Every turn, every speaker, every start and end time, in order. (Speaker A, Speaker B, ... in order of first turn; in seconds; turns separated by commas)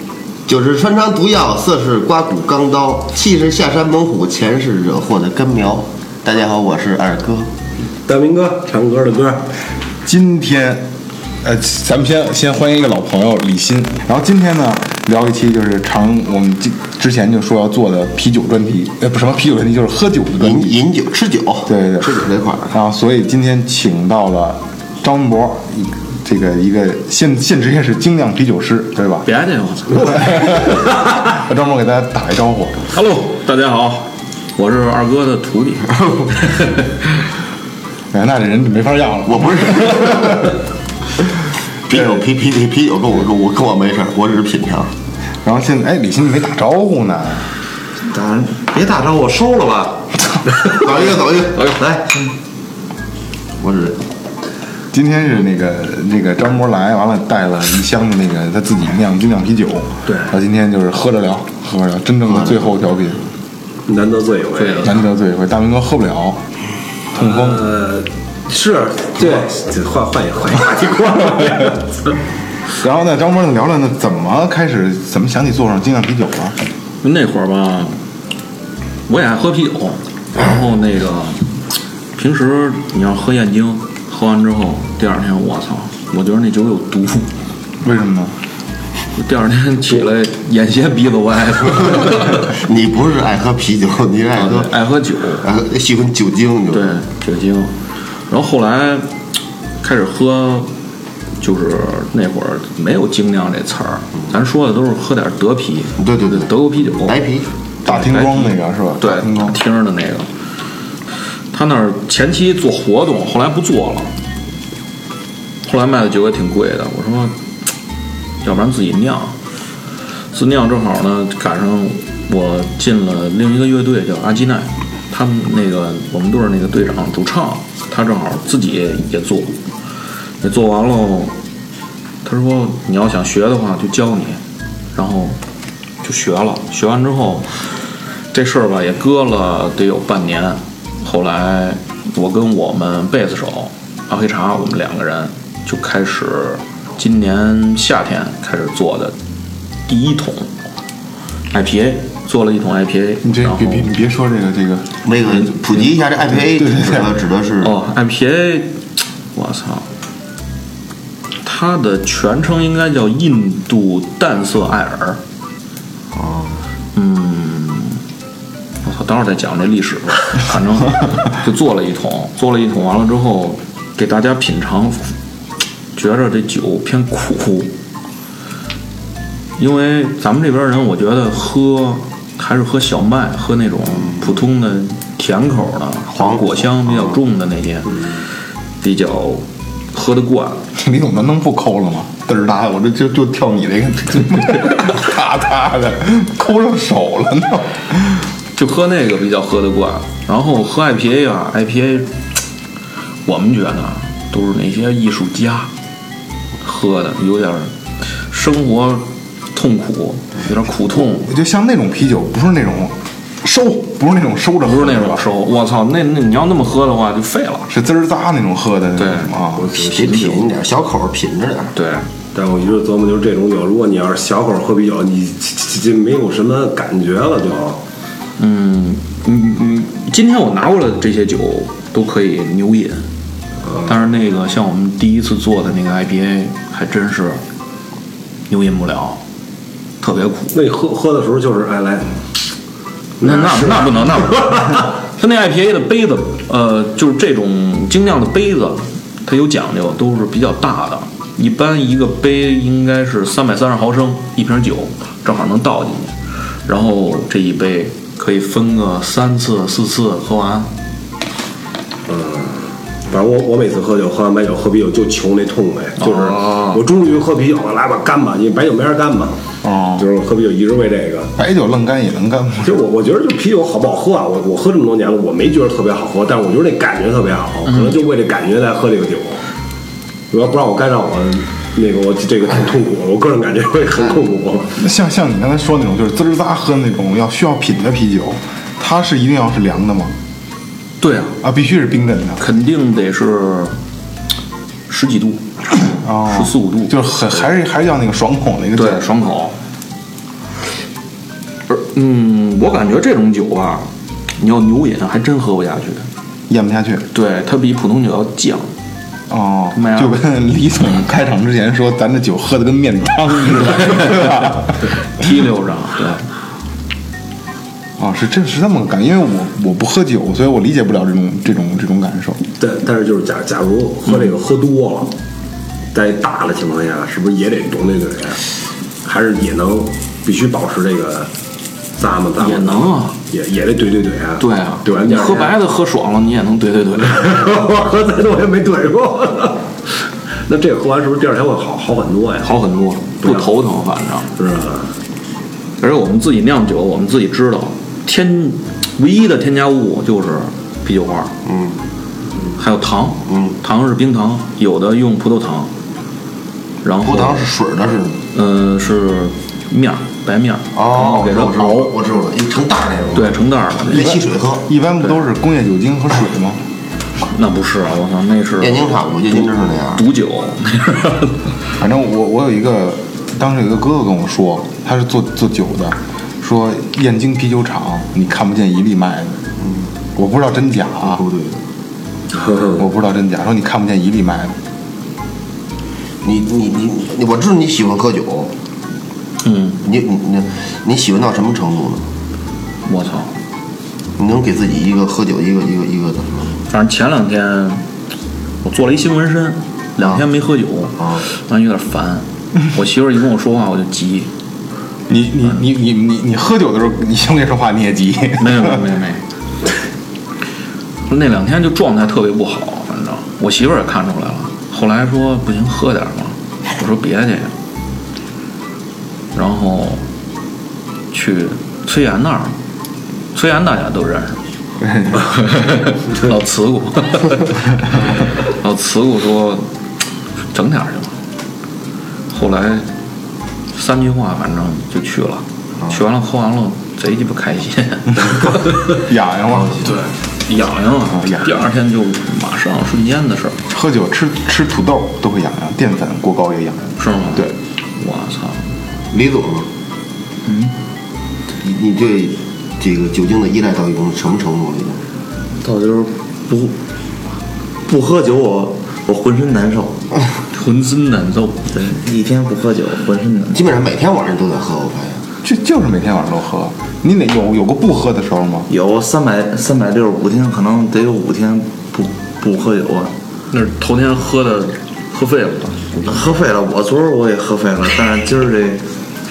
Speaker A: 0.5-7.5, Speaker B: 8.1-9.5, Speaker C: 10.0-10.9, Speaker C: 11.4-20.8, Speaker A: 20.4-22.7, Speaker C: 21.7-29.3, Speaker D: 29.2-30.7, Speaker C: 30.1-32.8, Speaker D: 32.9-36.6, Speaker C: 38.1-40.5, Speaker A: 39.3-40.5, Speaker A: 41.9-44.9, Speaker C: 45.4-47.5, Speaker E: 48.1-50.1, Speaker A: 50.7-51.8, Speaker E: 51.6-52.3, Speaker A: 53.6-54.0, Speaker C: 54.9-63.2, Speaker D: 60.0-60.3, Speaker A: 62.2-62.7, Speaker B: 63.9-65.0, Speaker D: 64.6-64.9, Speaker C: 64.8-66.4, Speaker C: 67.1-67.7, Speaker B: 67.1-72.1, Speaker C: 72.8-76.6, Speaker D: 77.0-78.0, Speaker D: 79.1-81.6, Speaker D: 82.1-87.3, Speaker C: 87.8-88.3, Speaker D: 89.1-92.5, Speaker A: 92.4-94.7, Speaker D: 94.3-95.5, Speaker A: 95.4-97.0, Speaker D: 96.7-97.7, Speaker D: 98.3-99.1, Speaker D: 99.8-100.7, Speaker D: 101.4-107.2, Speaker A: 106.0-107.5, Speaker C: 107.8-109.6, Speaker D: 107.8-110.3, Speaker D: 111.5-114.1, Speaker D: 115.6-117.3, Speaker D: 118.4-119.3, Speaker D: 120.3-129.6, Speaker D: 130.4-131.3, Speaker D: 132.2-134.4, Speaker D: 134.9-135.4, Speaker D: 136.0-137.7, Speaker D: 138.3-149.1, Speaker D: 149.9-150.5, Speaker D: 151.5-153.9, Speaker C: 153.2-157.1, Speaker A: 155.0-157.7, Speaker D: 157.6-158.8, Speaker D: 159.3-159.9, Speaker D: 161.4-165.2, Speaker A: 166.1-166.6, Speaker D: 166.9-168.0, Speaker D: 168.8-175.1, Speaker D: 175.9-177.7, Speaker D: 179.6-188.2, Speaker A: 186.1-187.2, Speaker D: 188.8-190.6, Speaker C: 190.8-198.3, Speaker D: 198.6-202.1, Speaker D: 203.2-205.7, Speaker D: 206.6-207.7, Speaker D: 208.3-211.3, Speaker C: 211.0-215.2, Speaker D: 214.6-217.7, Speaker C: 217.7-219.7, Speaker D: 218.9-220.4, Speaker A: 219.7-221.7, Speaker D: 221.7-222.1, Speaker B: 222.3-227.8, Speaker D: 228.4-233.1, Speaker D: 233.8-237.4, Speaker D: 238.5-239.2, Speaker D: 240.0-240.6, Speaker B: 240.5-242.2, Speaker B: 243.2-244.8, Speaker D: 243.2-260.7, Speaker B: 262.1-269.4, Speaker D: 266.0-266.8, Speaker C: 269.6-270.1, Speaker B: 269.9-271.3, Speaker C: 271.4-272.8, Speaker B: 272.6-279.4, Speaker D: 277.6-278.0, Speaker B: 280.3-284.8, Speaker C: 284.8-290.1, Speaker D: 291.0-291.4, Speaker C: 291.4-292.4, Speaker D: 292.4-293.8, Speaker D: 294.9-297.4, Speaker C: 295.8-299.1, Speaker D: 298.7-299.6, Speaker D: 301.7-306.1, Speaker C: 306.5-307.0, Speaker D: 307.1-308.7, Speaker C: 309.3-314.8, Speaker D: 309.7-310.2, Speaker D: 313.9-314.4, Speaker D: 315.0-316.3, Speaker C: 318.0-322.4, Speaker B: 322.6-325.1, Speaker B: 325.9-328.5, Speaker B: 329.0-331.3, Speaker B: 332.0-335.6, Speaker D: 332.4-333.1, Speaker D: 334.4-337.5, Speaker B: 337.1-339.7, Speaker B: 340.5-342.5, Speaker D: 342.4-344.3, Speaker B: 343.2-343.5, Speaker B: 344.4-344.9, Speaker D: 345.8-351.3, Speaker A: 351.4-351.8, Speaker D: 352.6-355.7, Speaker A: 353.3-353.6, Speaker D: 356.8-357.5, Speaker A: 357.0-358.2, Speaker D: 358.3-361.9, Speaker A: 360.7-364.7, Speaker D: 363.1-364.2, Speaker C: 364.0-366.6, Speaker D: 367.2-371.5, Speaker A: 368.6-370.0, Speaker C: 371.8-379.4, Speaker A: 379.6-379.9, Speaker C: 380.1-381.2, Speaker A: 381.1-381.6, Speaker C: 382.7-384.5, Speaker A: 386.2-388.5, Speaker D: 389.4-389.8, Speaker A: 389.8-392.0, Speaker D: 392.8-393.3, Speaker A: 394.2-396.6, Speaker D: 396.7-397.8, Speaker D: 398.6-404.3, Speaker A: 401.0-401.2, Speaker C: 405.1-408.8, Speaker D: 408.4-409.2, Speaker D: 411.1-417.5, Speaker D: 419.3-420.0, Speaker D: 421.1-422.5, Speaker D: 423.3-424.4, Speaker C: 424.8-425.2, Speaker D: 425.1-429.7, Speaker D: 430.5-431.1, Speaker D: 432.3-432.9, Speaker D: 433.7-438.9, Speaker C: 438.9-440.0, Speaker D: 439.8-443.6, Speaker C: 441.2-441.5, Speaker C: 443.7-447.5, Speaker D: 447.0-448.7, Speaker A: 449.1-449.7, Speaker E: 450.4-450.7, Speaker A: 451.6-455.0, Speaker E: 455.6-456.7, Speaker E: 457.9-460.0, Speaker D: 460.5-461.7, Speaker E: 461.7-463.7, Speaker A: 463.5-465.2, Speaker C: 465.4-468.7, Speaker E: 468.7-473.1, Speaker D: 473.5-476.2, Speaker E: 476.1-478.8